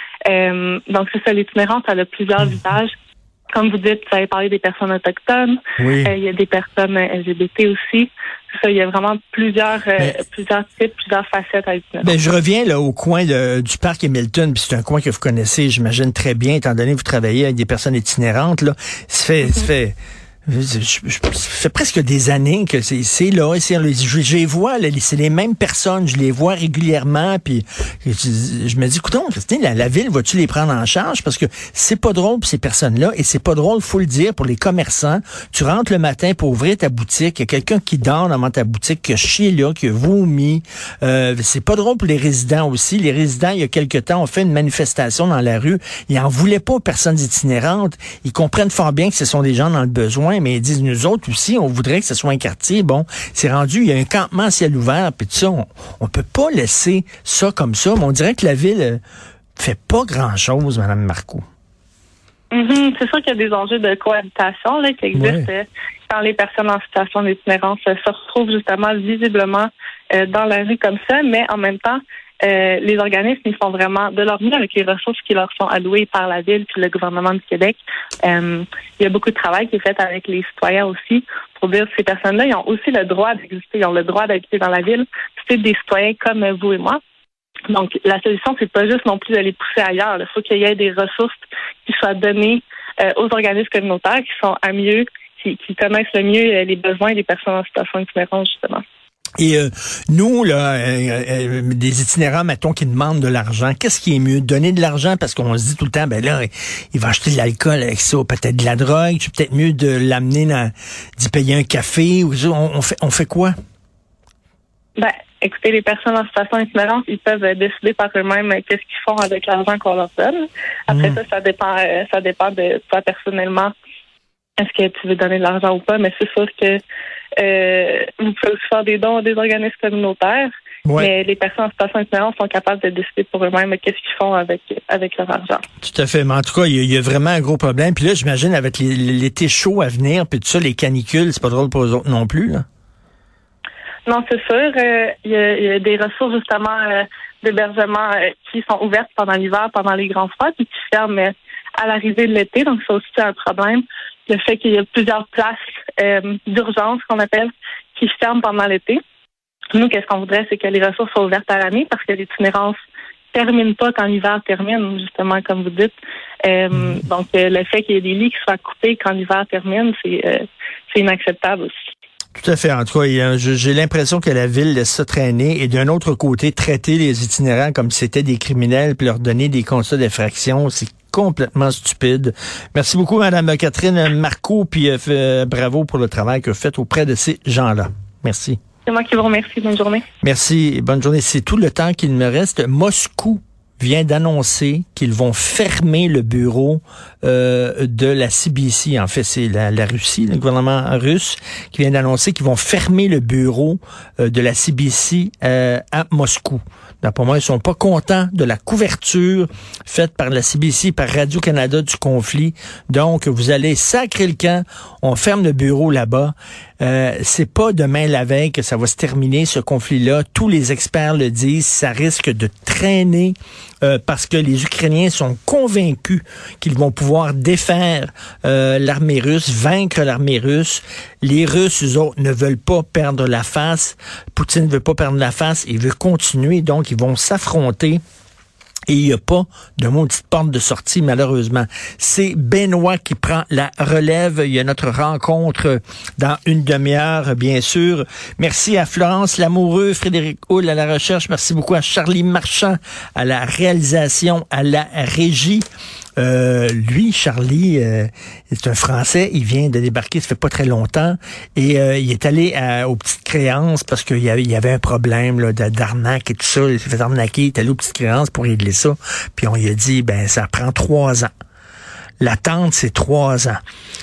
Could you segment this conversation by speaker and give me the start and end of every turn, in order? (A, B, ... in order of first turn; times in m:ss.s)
0:00.3-0:02.9 A
0:03.5-0:12.2 A
0:05.8-0:06.1 B
0:12.0-0:59.0 B
0:59.6-1:01.4 B
1:02.5-1:27.0 A
1:05.1-1:05.5 B
1:27.7-1:38.8 A
1:39.4-1:53.5 B
1:55.0-2:03.7 A
2:00.9-2:01.2 B
2:04.6-2:06.8 A
2:07.4-2:15.6 A
2:10.8-2:11.1 B
2:15.8-2:22.6 B
2:24.1-2:39.0 A
2:39.7-2:42.8 A
2:43.3-2:51.7 A
2:52.4-3:08.6 B
3:08.8-3:10.0 A
3:10.2-3:58.0 B
3:58.9-4:15.6 B
4:16.2-4:31.3 B
4:32.2-4:33.6 B